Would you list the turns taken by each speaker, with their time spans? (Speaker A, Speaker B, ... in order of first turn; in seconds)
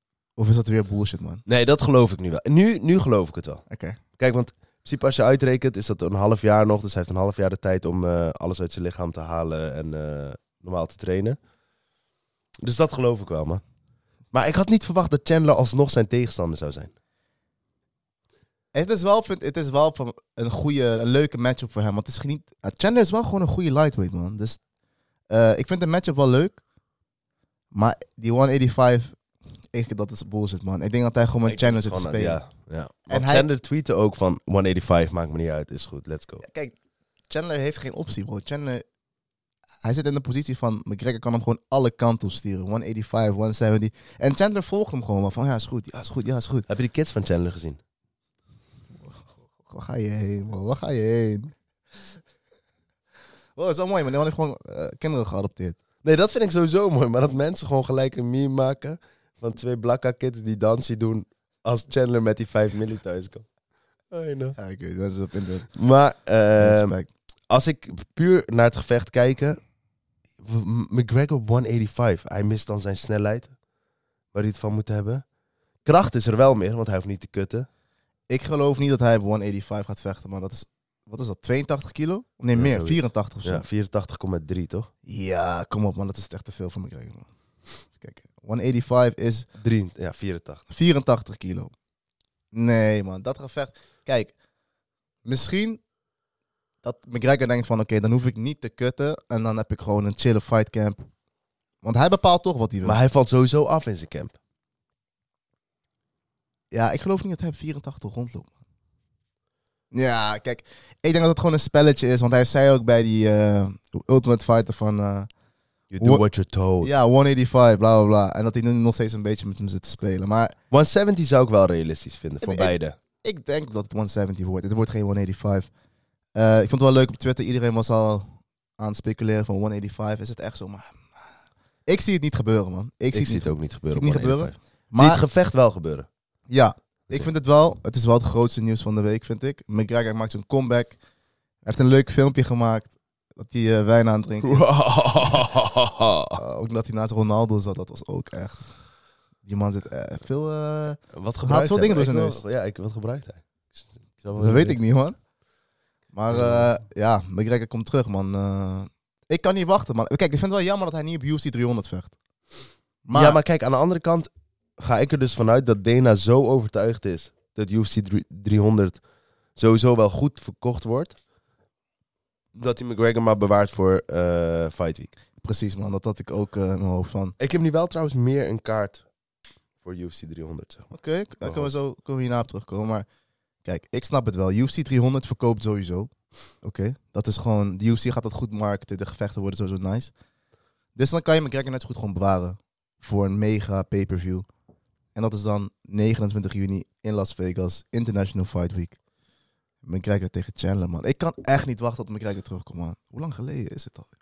Speaker A: 0.4-1.4, 3.7-4.0, 18.7-24.6, 25.3-26.6, 27.7-29.2, 29.7-32.4, 33.1-33.5, 36.4-36.8, 37.3-38.8, 39.8-46.7, 49.7-51.5, 53.6-55.8, 64.6-65.7, 66.6-67.1, 78.3-83.7, 85.1-87.3, 88.0-89.5, 90.7-91.7, 92.5-94.3, 95.2-95.8, 96.8-101.1, 101.8-103.0, 106.7-108.5, 109.9-115.3, 116.8-120.5, 122.4-125.7, 126.3-131.0, 131.9-135.2, 136.5-141.0, 141.6-144.7, 146.3-148.7, 149.4-152.4, 154.3-155.2, 156.1-162.1, 163.1-163.4, 175.4-177.4, 180.9-183.1, 183.6-190.1, 191.0-194.4, 195.2-199.0, 199.8-204.1
Speaker B: 1.5-3.6, 4.2-11.4, 12.6-13.6, 14.3-16.9, 31.5-36.4, 46.7-47.8, 56.0-63.5, 64.1-64.6, 65.7-67.0, 67.5-69.6, 70.4-73.5, 74.3-75.2, 75.8-77.7, 82.5-84.9, 89.6-90.6, 102.8-104.3, 115.9-116.9, 120.7-123.0, 133.1-136.1, 144.4-146.4, 151.1-154.8, 156.3-156.7, 163.1-169.0, 169.6-171.2, 172.5-175.1, 177.4-179.1, 179.8-180.9, 181.4-181.7